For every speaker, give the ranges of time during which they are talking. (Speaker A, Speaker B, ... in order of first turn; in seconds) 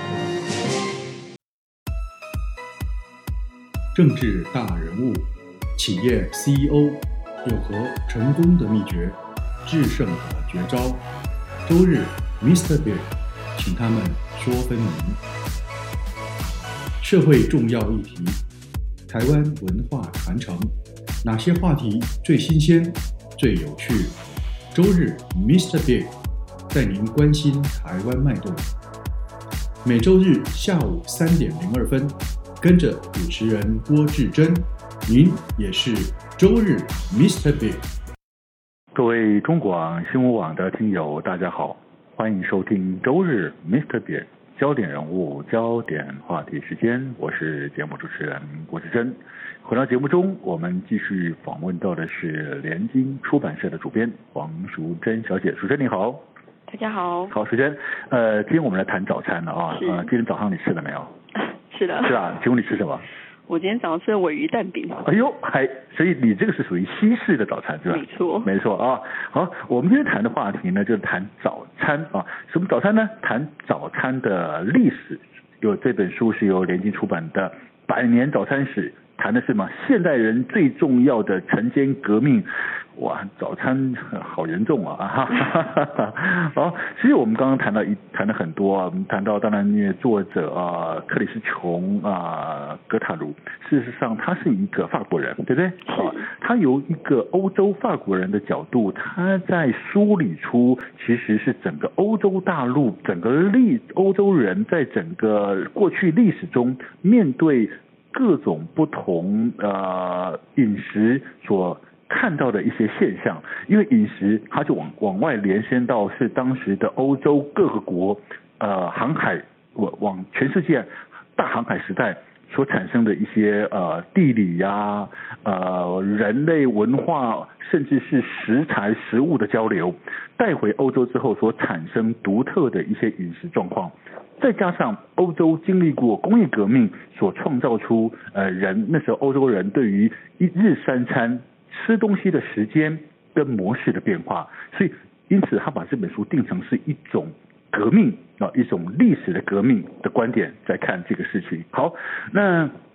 Speaker A: 3.9-11.1, 11.7-15.2, 17.0-18.4, 19.1-24.2, 24.7-26.1, 26.7-28.7, 29.8-37.9
Speaker B: 38.9-56.2, 57.3-61.1, 62.0-63.0, 65.0-152.7
Speaker C: 56.7-57.3, 59.7-60.1, 61.3-62.2, 63.5-65.1, 67.9-68.5, 95.8-96.3